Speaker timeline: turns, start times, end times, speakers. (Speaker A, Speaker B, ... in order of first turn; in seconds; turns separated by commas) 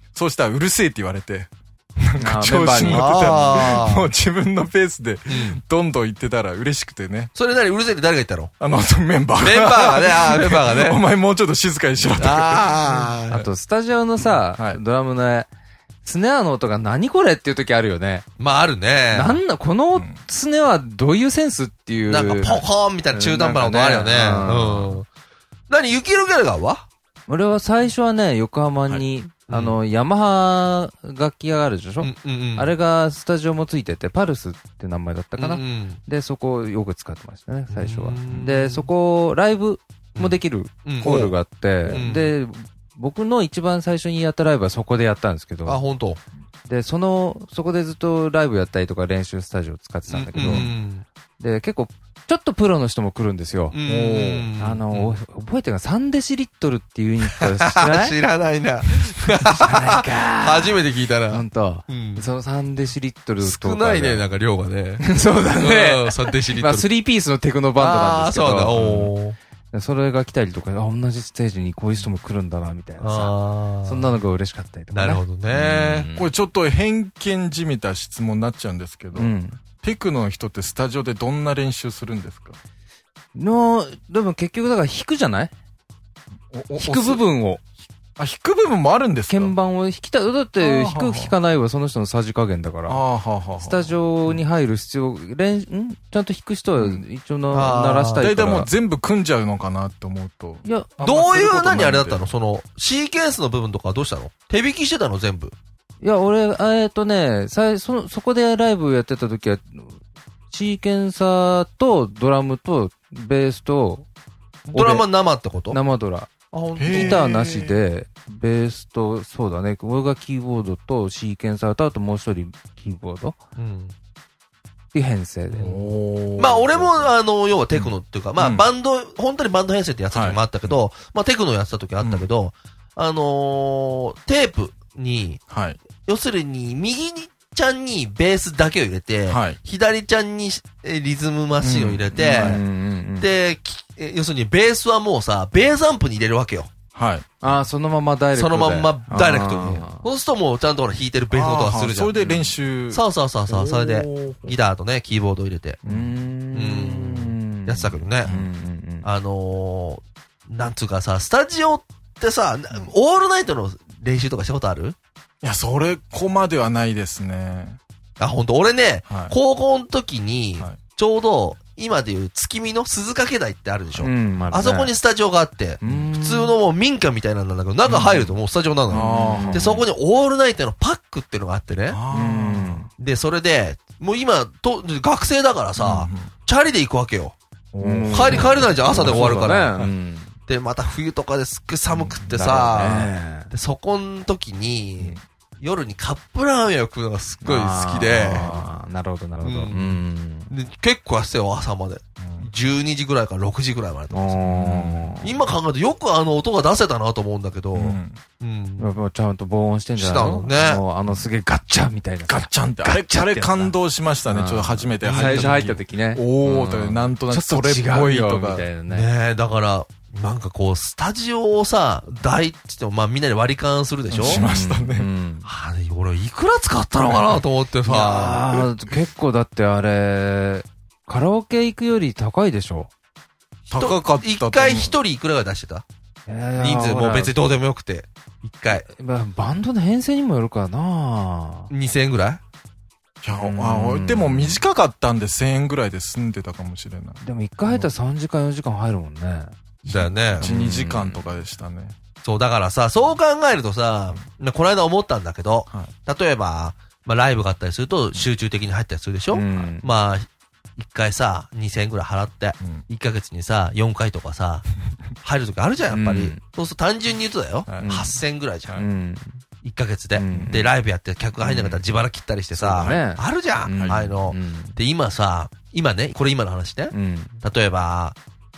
Speaker A: 0.1-7.3, Speaker B: 2.2-3.4, Speaker C: 2.8-4.1, Speaker C: 5.3-5.6, Speaker C: 7.3-8.5, Speaker A: 8.6-13.4, Speaker C: 9.4-11.0, Speaker C: 12.2-13.4, Speaker B: 13.3-15.5, Speaker B: 16.0-18.3, Speaker C: 18.4-19.4, Speaker B: 19.1-25.0, Speaker A: 19.9-20.2, Speaker C: 22.1-25.1, Speaker C: 25.7-26.9, Speaker B: 27.3-45.8, Speaker C: 29.5-29.8, Speaker C: 32.0-32.7, Speaker C: 35.4-36.0, Speaker C: 37.7-38.9, Speaker C: 40.2-41.4, Speaker A: 41.8-42.1, Speaker C: 41.9-42.3, Speaker C: 45.6-46.2, Speaker B: 46.7-50.7, Speaker C: 50.1-51.0, Speaker A: 50.5-50.7, Speaker B: 51.4-53.8, Speaker C: 53.7-55.1, Speaker A: 53.9-54.5, Speaker B: 54.6-58.2, Speaker C: 57.7-62.2, Speaker B: 59.4-64.3, Speaker C: 63.4-66.9, Speaker B: 65.0-69.1, Speaker C: 67.8-69.4, Speaker A: 68.8-69.1, Speaker B: 69.7-76.3, Speaker C: 73.0-74.2, Speaker C: 74.9-76.1, Speaker A: 76.1-79.3, Speaker B: 79.2-79.6, Speaker A: 79.8-82.6, Speaker B: 83.3-85.5, Speaker A: 86.5-87.2, Speaker B: 86.8-87.6, Speaker A: 88.2-89.6, Speaker B: 89.3-98.7, Speaker A: 90.6-91.3, Speaker A: 92.9-94.4, Speaker A: 96.8-97.0, Speaker C: 97.5-98.3, Speaker A: 98.2-102.2, Speaker B: 100.6-101.1, Speaker C: 101.0-105.5, Speaker B: 106.0-110.0, Speaker B: 110.5-114.1, Speaker A: 114.7-115.0, Speaker C: 114.7-115.8, Speaker B: 114.8-115.0, Speaker B: 115.7-116.3, Speaker C: 116.5-117.3, Speaker A: 116.8-117.8, Speaker B: 116.9-123.4, Speaker C: 123.6-123.9, Speaker B: 124.9-125.8, Speaker A: 125.6-127.1, Speaker C: 126.4-135.4, Speaker A: 127.8-128.7, Speaker A: 130.1-130.8, Speaker A: 132.0-132.3, Speaker A: 135.5-135.8, Speaker C: 136.0-142.6, Speaker A: 139.3-139.6, Speaker A: 141.6-142.6, Speaker B: 142.2-143.3, Speaker C: 143.2-146.7, Speaker A: 146.9-147.4, Speaker B: 147.4-150.1, Speaker C: 148.3-155.8, Speaker A: 151.3-154.6, Speaker B: 155.8-159.1, Speaker A: 155.9-156.2, Speaker C: 156.5-158.3, Speaker A: 157.8-158.5, Speaker C: 159.0-165.0, Speaker A: 165.4-167.8, Speaker C: 168.2-182.0, Speaker A: 169.1-169.3, Speaker B: 174.0-174.9, Speaker B: 175.8-176.6, Speaker A: 177.8-178.3, Speaker A: 178.9-179.8, Speaker B: 178.9-179.9, Speaker A: 181.9-182.9, Speaker B: 182.1-182.9, Speaker C: 183.0-187.4, Speaker A: 185.8-186.3, Speaker A: 187.7-189.9, Speaker B: 187.8-190.3, Speaker C: 188.1-189.8, Speaker C: 190.5-198.5, Speaker B: 192.2-193.5, Speaker B: 197.4-200.5, Speaker A: 198.2-198.7, Speaker C: 199.4-204.4, Speaker A: 202.2-202.5, Speaker B: 204.1-205.4, Speaker A: 204.4-205.2, Speaker C: 205.2-208.9, Speaker A: 207.7-208.2, Speaker B: 208.8-219.1, Speaker C: 210.0-210.8, Speaker A: 212.3-218.7, Speaker C: 215.0-215.7, Speaker C: 218.9-224.4, Speaker A: 224.1-225.1, Speaker B: 224.2-225.5, Speaker C: 225.4-228.7, Speaker B: 227.8-232.9, Speaker A: 233.7-234.9, Speaker C: 233.7-235.8, Speaker B: 236.3-237.3, Speaker C: 236.6-238.9, Speaker B: 238.7-241.7, Speaker C: 241.7-242.4, Speaker A: 243.2-247.9, Speaker B: 243.3-244.6, Speaker B: 247.2-249.6, Speaker C: 249.8-250.5, Speaker A: 249.9-252.0, Speaker B: 250.4-251.5, Speaker C: 252.2-264.6, Speaker B: 259.3-259.9, Speaker C: 265.2-268.8, Speaker B: 265.9-266.4, Speaker A: 267.7-268.0, Speaker B: 267.8-268.2, Speaker B: 268.7-269.4, Speaker C: 269.6-278.2, Speaker B: 270.2-270.7, Speaker A: 271.5-271.8, Speaker B: 272.6-274.8, Speaker B: 276.9-277.4